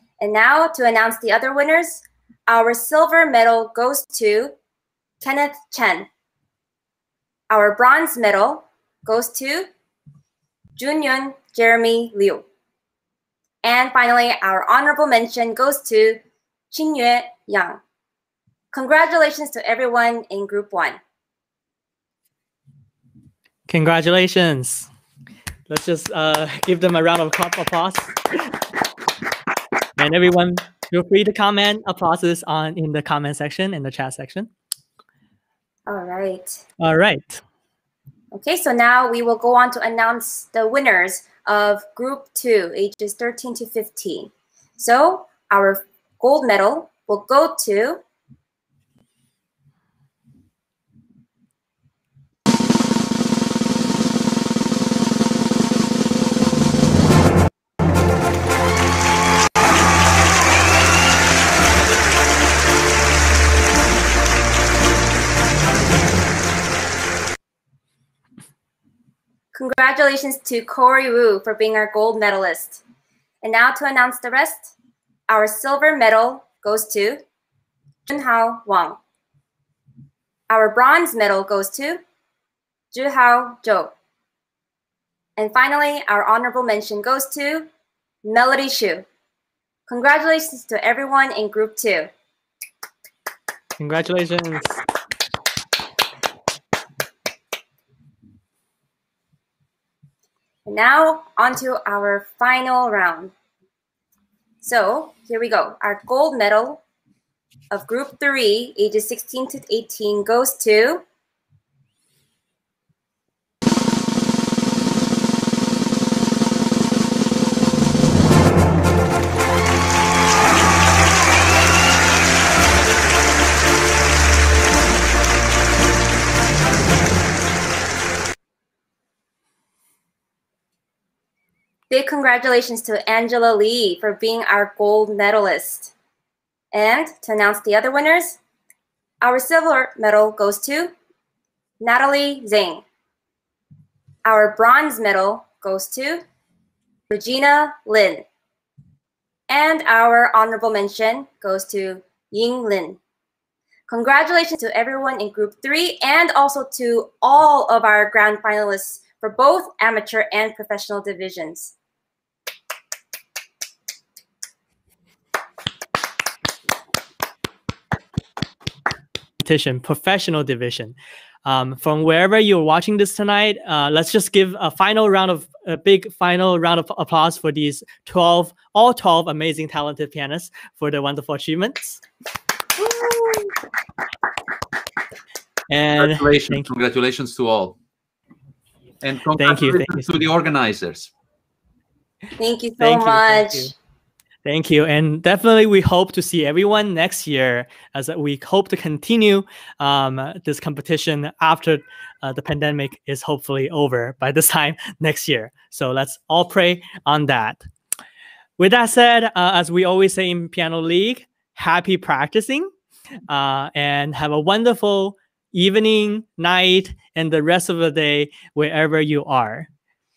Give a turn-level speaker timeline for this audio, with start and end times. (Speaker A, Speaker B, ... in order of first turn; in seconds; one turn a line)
Speaker A: 0.2-4.5
Speaker A: 5.2-6.1
Speaker A: 7.5-9.7
Speaker A: 10.8-12.4
Speaker A: 13.6-16.2
Speaker A: 16.7-17.8
Speaker A: 18.7-21.0
Speaker B: 23.7-24.9
Speaker B: 25.7-28.5
Speaker B: 30.0-34.5
Speaker A: 35.9-36.6
Speaker B: 36.8-37.4
Speaker A: 38.3-48.0
Speaker A: 69.5-72.8
Speaker A: 73.4-74.7
Speaker A: 75.3-77.2
Speaker A: 78.1-79.0
Speaker A: 80.5-82.0
Speaker A: 82.9-83.9
Speaker A: 85.4-87.7
Speaker A: 88.2-89.0
Speaker A: 89.9-92.1
Speaker B: 93.8-94.8
Speaker A: 100.7-103.3
Speaker A: 104.6-106.8
Speaker A: 107.7-111.0
Speaker A: 131.9-135.9
Speaker A: 136.7-138.4
Speaker A: 139.2-140.9
Speaker A: 141.8-142.8
Speaker A: 144.2-146.2
Speaker A: 147.1-148.2
Speaker A: 149.5-153.0
Speaker A: 153.9-161.7
Speaker B: 169.4-182.0
Speaker B: 185.7-186.7
Speaker C: 186.0-187.8
Speaker C: 189.0-191.1
Speaker B: 189.4-190.2
Speaker A: 192.4-193.7
Speaker B: 192.8-193.7
Speaker B: 194.4-207.7
Speaker B: 208.6-212.7
Speaker B: 213.3-219.7